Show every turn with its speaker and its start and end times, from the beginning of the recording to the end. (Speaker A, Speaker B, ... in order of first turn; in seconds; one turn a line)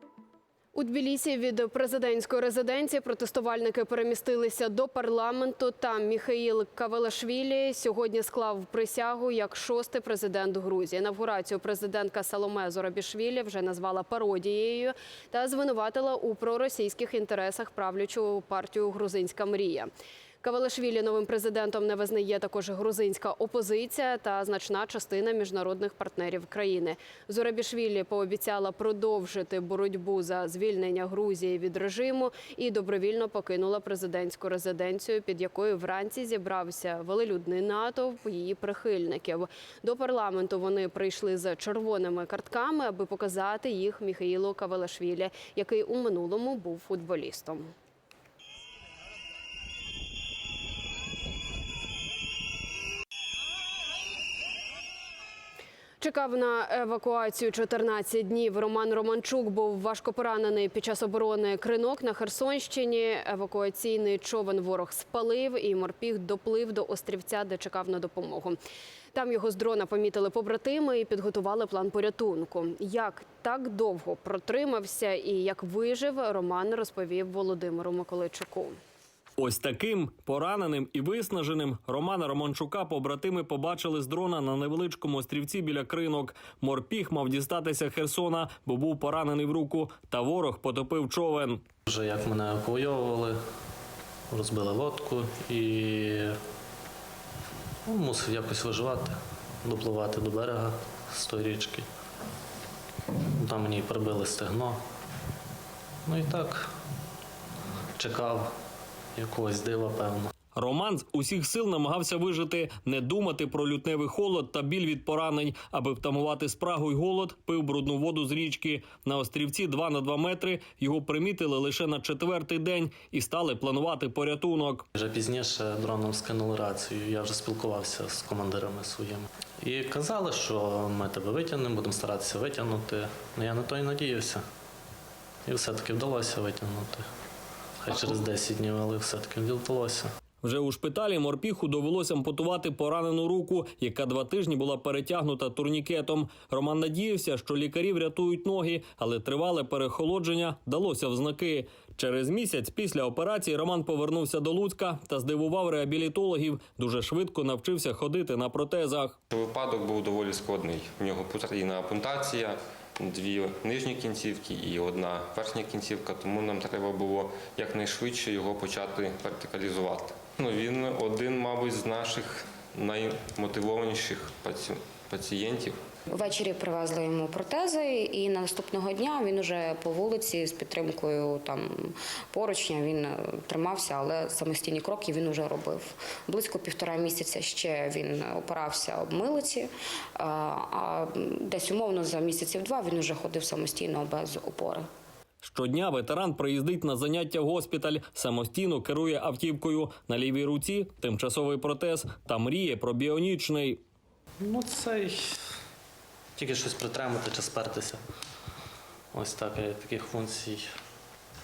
Speaker A: 0.7-19.9
Speaker A: 20.4-47.7
Speaker A: 56.0-68.6
Speaker A: 69.1-78.8
Speaker B: 79.4-91.6
Speaker C: 91.9-93.4
Speaker C: 94.3-96.3
Speaker C: 97.9-101.9
Speaker C: 103.4-104.8
Speaker C: 106.0-106.7
Speaker C: 108.0-108.5
Speaker C: 109.2-110.3
Speaker B: 110.5-124.9
Speaker C: 124.9-134.4
Speaker C: 135.4-137.1
Speaker C: 137.8-140.1
Speaker B: 140.4-159.2
Speaker D: 159.3-175.8
Speaker E: 176.1-194.9
Speaker B: 195.4-203.8
Speaker C: 204.4-205.4
Speaker C: 206.4-208.0
Speaker C: 209.1-210.6